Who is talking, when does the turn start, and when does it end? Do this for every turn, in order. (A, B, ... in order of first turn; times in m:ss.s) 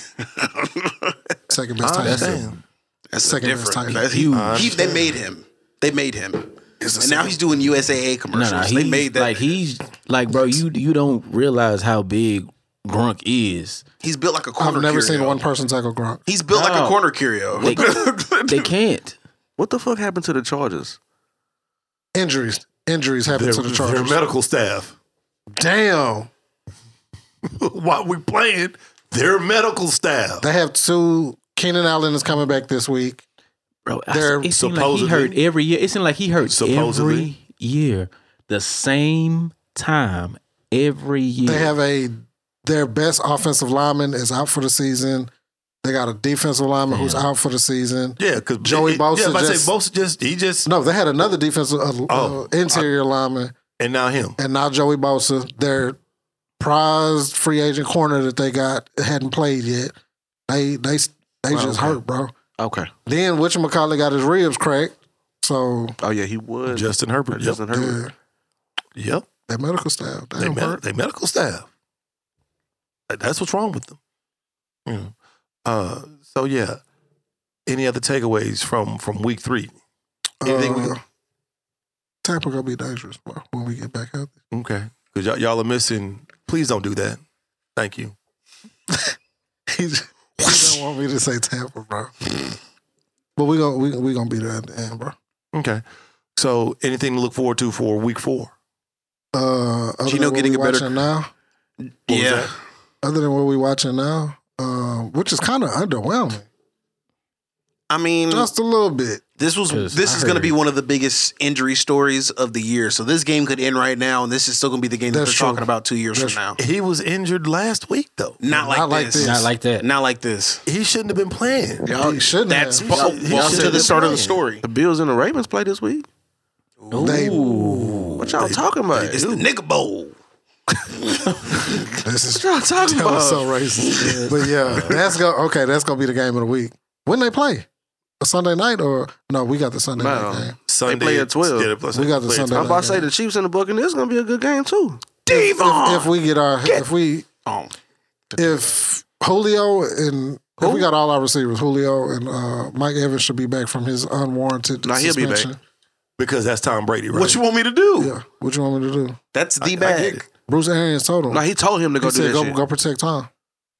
0:00.2-0:01.1 A
0:01.5-0:02.5 B
0:01.8-0:02.6 C
0:02.0-0:02.4 D
0:03.1-0:09.4 A
0:03.2-0:04.3 B
0:04.1-0:04.8 D
0:04.3-0:05.1 C
0:07.0-0:07.3 B
0:08.3-0:13.8 D
0:14.0-0:15.4 A
0:14.6-0:16.2 B
0:16.3-0:18.7 A
0:16.5-0:17.0 D
0:17.6-0:19.2 D
0:19.6-0:21.0 E
0:22.1-0:24.2 B
0:23.3-0:24.9 C
0:25.5-0:26.3 B
0:27.5-0:30.4 C
0:30.4-0:33.2 B
0:33.8-0:41.7 D
0:34.1-0:34.5 B
0:34.5-0:35.4 C
0:36.4-0:37.3 C
0:41.4-0:45.3 B
0:45.8-0:49.7 B
0:46.9-0:47.3 D
0:48.2-0:50.7 C
0:50.6-0:53.6 B
0:52.1-0:52.9 C
0:53.8-0:54.4 C
0:54.4-0:56.0 B
0:56.6-0:59.9 B
1:00.5-1:02.3 B
1:01.5-1:02.0 E
1:02.6-1:02.9 E
1:03.0-1:06.0 B
1:06.0-1:08.0 E
1:06.7-1:07.6 C
1:07.7-1:08.1 B
1:09.0-1:09.3 C
1:09.5-1:10.8 B
1:10.4-1:11.7 C
1:13.1-1:14.0 C
1:14.8-1:15.1 C
1:15.6-1:16.8 C
1:17.7-1:19.8 C
1:20.4-1:21.0 B
1:22.2-1:24.3 B
1:24.5-1:27.2 C
1:27.8-1:28.1 C
1:29.7-1:32.1 B
1:33.4-1:35.1 B
1:35.5-1:35.8 C
1:36.4-1:38.5 C
1:39.3-1:41.3 B
1:40.0-1:40.9 A
1:42.1-1:42.5 A
1:42.1-1:42.5 C
1:43.0-1:46.4 B
1:47.9-1:48.5 A
1:48.3-1:49.2 B
1:49.4-1:56.6 A
1:49.7-1:50.6 D
1:55.1-1:56.4 B
1:56.6-1:58.4 C
1:58.4-2:00.6 A
1:58.5-1:59.5 B
1:59.2-1:59.9 D
2:00.6-2:01.8 C
2:01.8-2:04.6 A
2:01.9-2:02.2 E
2:01.9-2:02.9 B
2:02.9-2:06.0 E
2:02.9-2:04.4 C
2:06.8-2:07.4 A
2:06.9-2:08.3 D
2:07.0-2:07.9 B
2:08.2-2:09.2 E
2:08.4-2:09.4 C
2:09.0-2:10.1 A
2:10.8-2:11.8 A
2:12.0-2:17.6 B
2:12.3-2:14.3 E
2:14.0-2:14.2 A
2:18.2-2:20.6 B
2:20.0-2:21.7 E
2:20.7-2:22.8 C
2:21.9-2:23.1 B
2:22.5-2:25.0 E
2:25.3-2:26.1 A
2:25.3-2:27.3 B
2:27.4-2:27.7 A
2:28.4-2:35.6 B
2:30.6-2:30.9 E
2:34.8-2:35.5 E
2:36.2-2:37.4 C
2:37.1-2:38.1 A
2:38.0-2:39.2 B
2:39.3-2:40.2 A
2:39.6-2:40.2 C
2:40.3-2:41.4 B
2:41.3-2:42.6 E
2:42.0-2:43.3 B